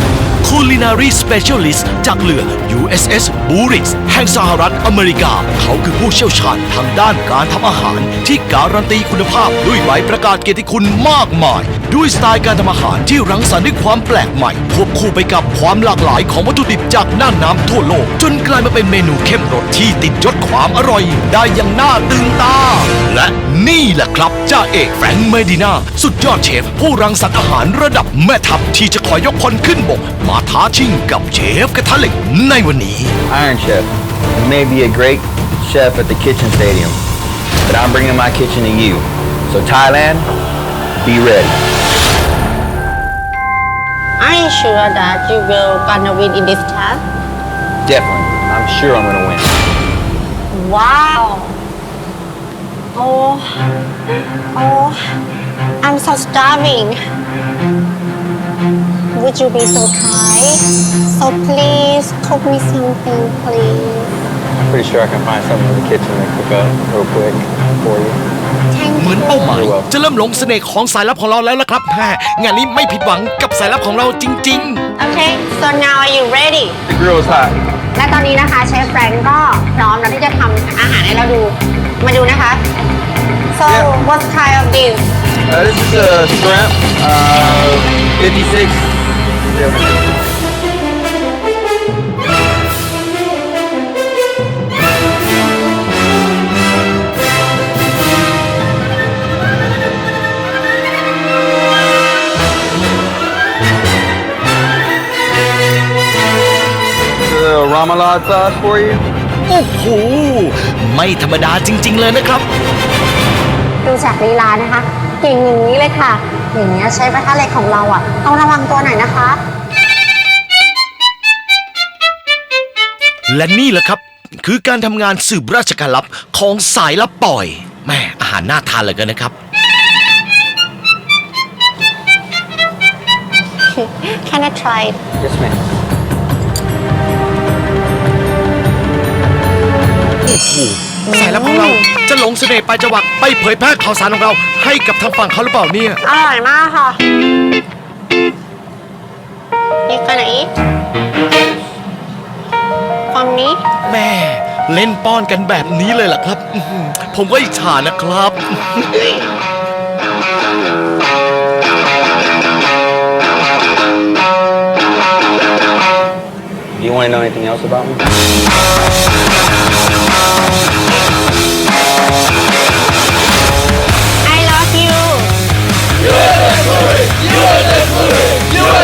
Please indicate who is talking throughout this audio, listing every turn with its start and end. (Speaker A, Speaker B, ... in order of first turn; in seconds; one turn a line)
Speaker A: 0.4-33.1
Speaker B: 33.3-37.0
Speaker B: 37.6-40.3
Speaker B: 41.0-41.6
Speaker C: 44.2-47.0
Speaker B: 47.9-49.6
Speaker C: 50.5-51.6
Speaker C: 52.9-53.5
Speaker C: 54.5-55.0
Speaker C: 55.8-57.0
Speaker C: 59.1-60.6
Speaker C: 61.1-64.1
Speaker B: 64.6-68.2
Speaker C: 68.7-69.6
Speaker A: 68.9-74.8
Speaker B: 69.5-69.9
Speaker C: 75.0-76.8
Speaker B: 76.8-77.6
Speaker C: 77.9-82.6
Speaker C: 83.5-85.0
Speaker B: 83.7-83.9
Speaker B: 85.5-90.0
Speaker B: 107.2-109.0
Speaker A: 109.5-112.4
Speaker C: 113.8-119.4
Speaker A: 123.3-129.3
Speaker C: 133.8-135.0
Speaker B: 135.2-135.6
Speaker A: 140.2-146.0
Speaker C: 141.1-141.8
Speaker C: 146.0-147.0
Speaker C: 149.9-150.5
Speaker C: 153.1-153.6
Speaker A: 153.8-159.1
Speaker B: 166.8-168.1
Speaker C: 174.2-175.3